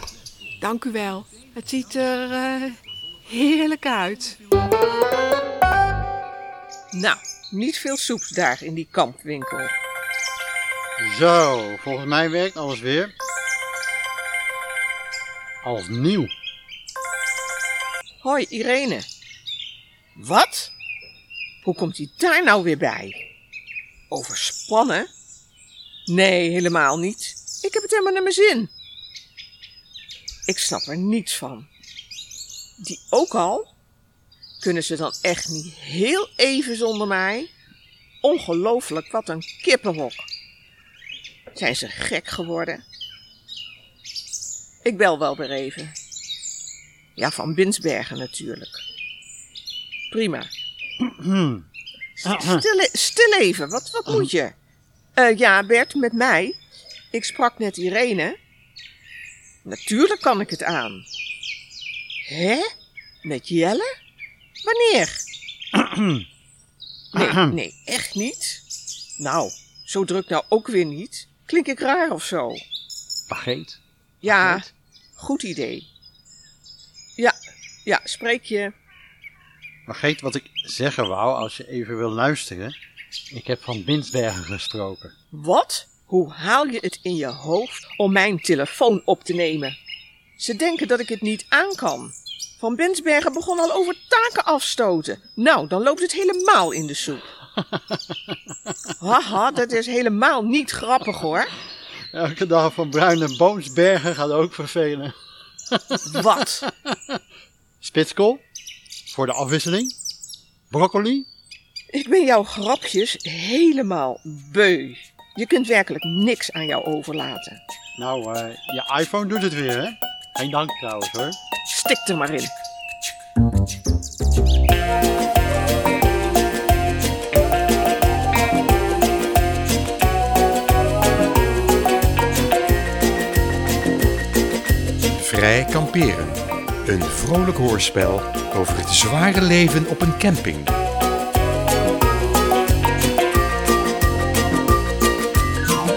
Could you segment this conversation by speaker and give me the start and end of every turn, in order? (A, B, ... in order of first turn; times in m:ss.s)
0:00.6-0:04.4 A
0:06.9-0:09.8 B
0:11.0-0:13.1 C
0:15.6-0:16.3 C
0:18.2-0:19.1 B
0:20.2-0:20.7 B
0:21.6-0:23.2 B
0:24.1-0:25.1 B
0:26.1-0:28.7 B
0:30.5-0:31.7 B
0:32.8-0:33.7 B
0:34.6-0:37.5 B
0:38.2-0:40.3 B
0:41.6-0:42.8 B
0:44.8-0:46.0 B
0:47.2-0:48.8 B
0:50.1-0:50.5 B
0:51.0-0:51.7 C
0:52.2-0:54.5 B
0:52.2-0:52.6 C
0:55.2-0:56.6 B
0:57.1-0:58.4 B
0:59.6-1:01.1 B
1:02.2-1:02.7 B
1:03.2-1:03.9 B
1:04.6-1:05.2 B
1:05.8-1:06.3 C
1:07.1-1:07.6 C
1:07.1-1:08.6 B
1:09.2-1:12.6 B
1:13.3-1:14.7 C
1:14.2-1:15.9 B
1:17.2-1:18.7 B
1:19.9-1:22.8 C
1:23.3-1:25.1 C
1:25.3-1:29.8 B
1:30.4-1:37.3 B
1:37.6-1:38.4 C
1:39.0-1:41.5 B
1:42.1-1:45.2 C
1:45.7-1:47.2 C
1:46.1-1:46.6 B
1:47.8-1:48.4 C
1:49.1-1:50.0 C
1:50.7-1:51.3 C
1:51.9-1:57.6 B
1:58.0-2:01.4 C
2:01.7-2:02.5 B
2:15.2-2:20.8 D